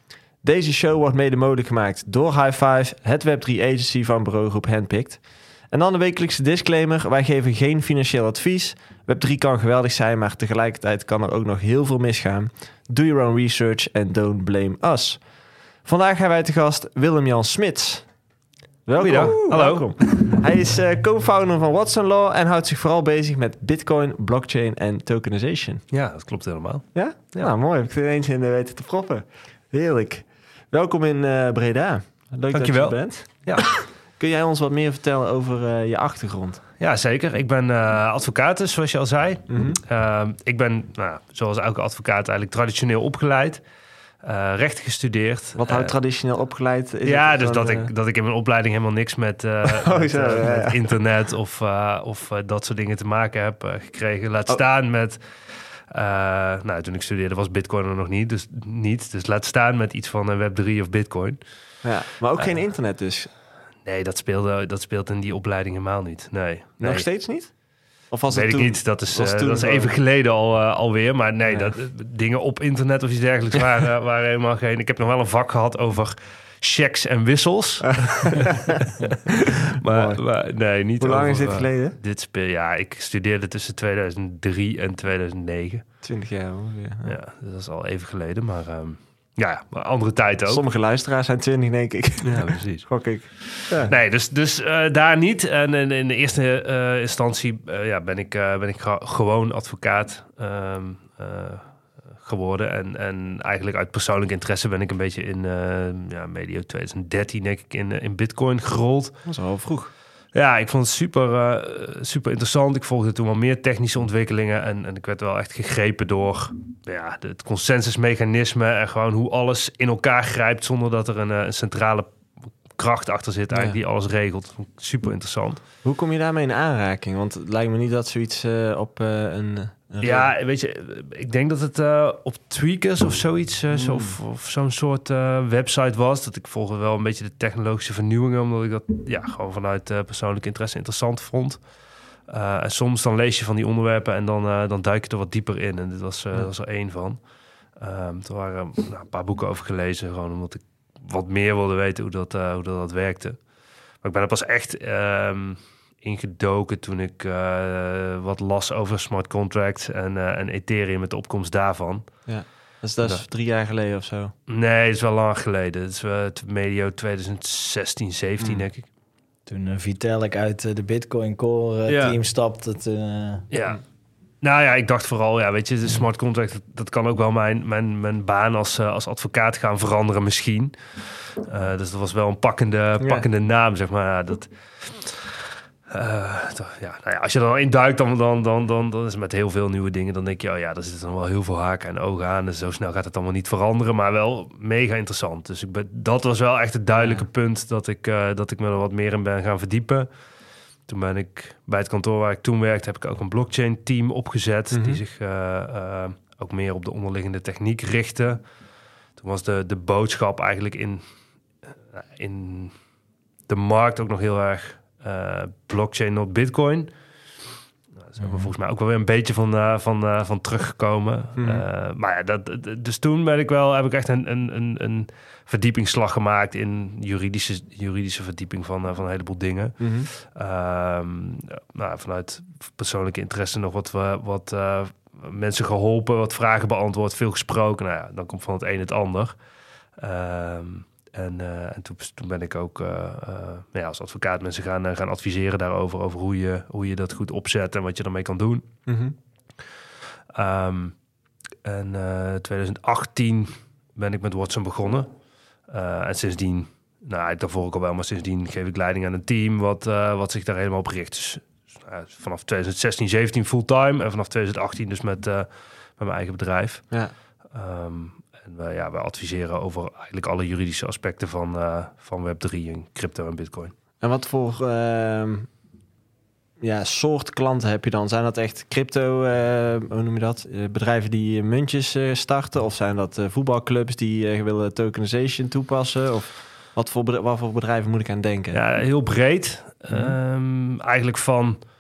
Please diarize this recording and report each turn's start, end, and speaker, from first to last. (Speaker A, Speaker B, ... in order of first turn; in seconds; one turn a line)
Speaker A: 0.4-18.1
Speaker A: 18.9-25.8
Speaker B: 19.0-20.4
Speaker B: 25.9-27.5
Speaker A: 26.9-36.6
Speaker B: 32.5-33.6
Speaker B: 36.8-43.6
Speaker A: 39.5-39.8
Speaker B: 44.2-46.0
Speaker A: 45.6-47.9
Speaker B: 47.0-61.4
Speaker A: 49.7-50.9
Speaker A: 61.8-63.3
Speaker B: 62.4-62.7
Speaker B: 63.8-67.1
Speaker A: 66.8-67.5
Speaker A: 68.1-70.0
Speaker B: 68.3-79.1
Speaker A: 71.5-71.7
Speaker A: 77.8-82.0
Speaker B: 79.8-85.8
Speaker A: 86.0-87.2
Speaker B: 87.0-90.6
Speaker A: 90.5-93.9
Speaker B: 92.2-101.7
Speaker B: 102.2-109.1
Speaker A: 109.2-109.9
Speaker B: 110.3-122.1
Speaker B: 122.7-125.6
Speaker A: 125.8-130.3
Speaker B: 130.0-141.6
Speaker A: 133.7-134.1
Speaker B: 142.3-147.2
Speaker B: 147.8-153.4
Speaker B: 154.0-162.3
Speaker A: 162.3-164.3
Speaker B: 163.0-163.2
Speaker B: 164.5-168.9
Speaker C: 169.5-173.5
Speaker B: 171.9-172.2
Speaker B: 173.5-173.8
Speaker B: 174.4-180.8
Speaker B: 181.4-185.4
Speaker A: 183.0-183.2
Speaker B: 185.9-200.1
Speaker A: 196.9-197.2
Speaker B: 200.9-208.4
Speaker A: 204.7-205.0
Speaker B: 209.2-211.0
Speaker B: 211.9-212.7
Speaker B: 213.5-216.9
Speaker B: 218.0-239.3
Speaker C: 218.2-218.5
Speaker A: 221.4-221.6
Speaker A: 229.8-230.1
Speaker B: 240.0-248.7
Speaker A: 248.8-249.1
Speaker B: 250.3-250.9
Speaker B: 251.6-255.1
Speaker B: 255.7-266.9
Speaker B: 267.5-273.7
Speaker A: 274.0-275.5
Speaker A: 276.6-288.6
Speaker B: 288.5-291.6
Speaker A: 289.9-290.2